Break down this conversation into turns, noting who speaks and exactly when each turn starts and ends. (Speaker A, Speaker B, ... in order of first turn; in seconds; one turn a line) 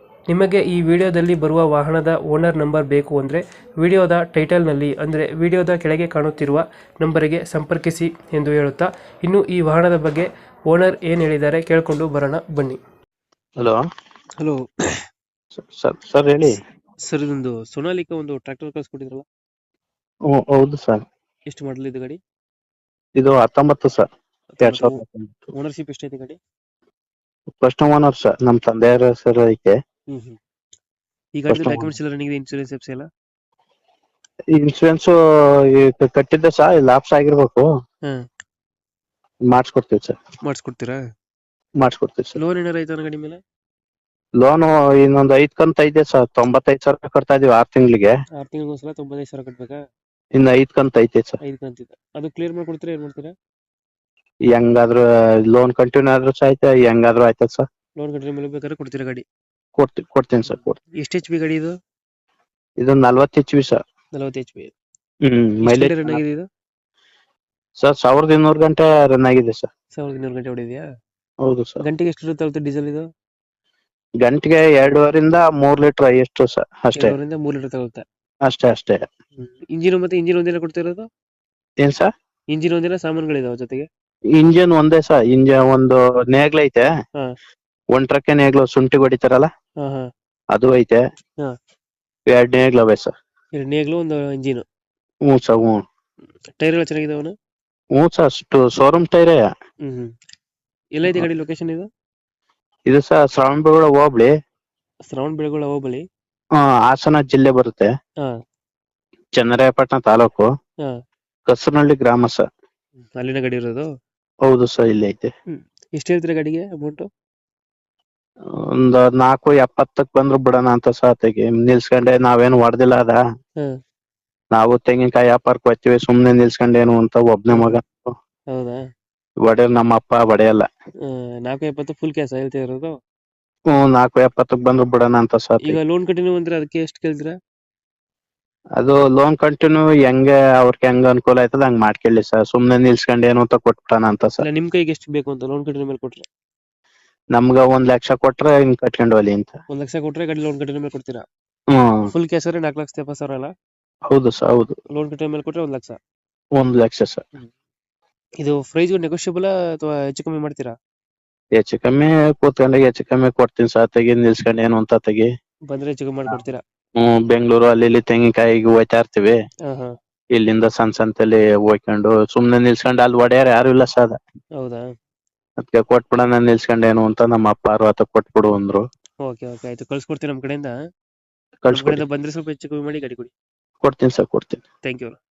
Speaker A: 0.3-12.8
Speaker A: 14.4-14.7
Speaker B: 15.5-16.6
Speaker A: 16.5-19.2
Speaker B: 20.3-21.0
Speaker A: 21.5-22.2
Speaker B: 23.2-24.1
Speaker A: 24.5-25.0
Speaker B: 24.6-25.5
Speaker A: 25.5-26.4
Speaker B: 27.5-29.8
Speaker A: 30.1-30.4
Speaker A: 31.4-33.1
Speaker B: 31.5-31.9
Speaker B: 34.5-37.7
Speaker B: 39.5-40.2
Speaker A: 40.4-41.0
Speaker B: 41.8-42.4
Speaker A: 42.4-43.4
Speaker B: 44.4-48.1
Speaker A: 48.4-49.8
Speaker B: 50.3-51.4
Speaker A: 51.4-53.3
Speaker B: 54.5-57.6
Speaker A: 58.0-59.2
Speaker B: 59.8-60.8
Speaker A: 61.0-61.7
Speaker B: 62.8-63.8
Speaker A: 64.1-64.7
Speaker B: 65.2-66.2
Speaker A: 65.6-66.5
Speaker B: 67.8-69.7
Speaker A: 70.0-70.8
Speaker B: 71.4-71.8
Speaker A: 71.8-73.0
Speaker B: 74.2-77.2
Speaker A: 76.9-78.0
Speaker B: 78.4-79.0
Speaker A: 79.4-81.0
Speaker B: 81.8-82.1
Speaker A: 82.5-83.9
Speaker B: 84.3-86.9
Speaker B: 87.9-89.5
Speaker A: 89.8-90.1
Speaker B: 90.5-91.0
Speaker B: 92.3-93.1
Speaker A: 93.5-94.6
Speaker B: 95.3-95.8
Speaker A: 96.6-97.3
Speaker B: 97.9-99.5
Speaker A: 99.8-100.1
Speaker A: 100.9-101.8
Speaker B: 102.9-104.3
Speaker A: 105.1-106.0
Speaker B: 106.6-107.9
Speaker B: 109.3-110.5
Speaker B: 111.5-112.4
Speaker A: 113.2-113.9
Speaker B: 114.4-115.3
Speaker A: 115.5-117.1
Speaker B: 118.5-123.2
Speaker B: 124.5-128.1
Speaker A: 127.5-127.8
Speaker A: 128.5-128.8
Speaker B: 129.4-130.7
Speaker A: 131.0-132.9
Speaker B: 133.7-135.8
Speaker A: 135.7-137.3
Speaker B: 138.8-144.4
Speaker A: 144.4-146.2
Speaker B: 147.3-149.5
Speaker A: 149.7-151.2
Speaker B: 151.7-152.1
Speaker A: 152.1-153.5
Speaker B: 154.1-154.8
Speaker A: 154.9-156.0
Speaker B: 156.6-157.2
Speaker A: 158.4-160.7
Speaker B: 161.6-165.3
Speaker A: 165.7-166.6
Speaker B: 167.0-169.3
Speaker A: 169.7-169.9
Speaker B: 170.3-174.2
Speaker A: 174.6-174.9
Speaker B: 175.6-178.8
Speaker A: 179.2-180.7
Speaker B: 181.6-182.0
Speaker A: 181.7-183.3
Speaker B: 183.8-184.6
Speaker A: 184.8-185.1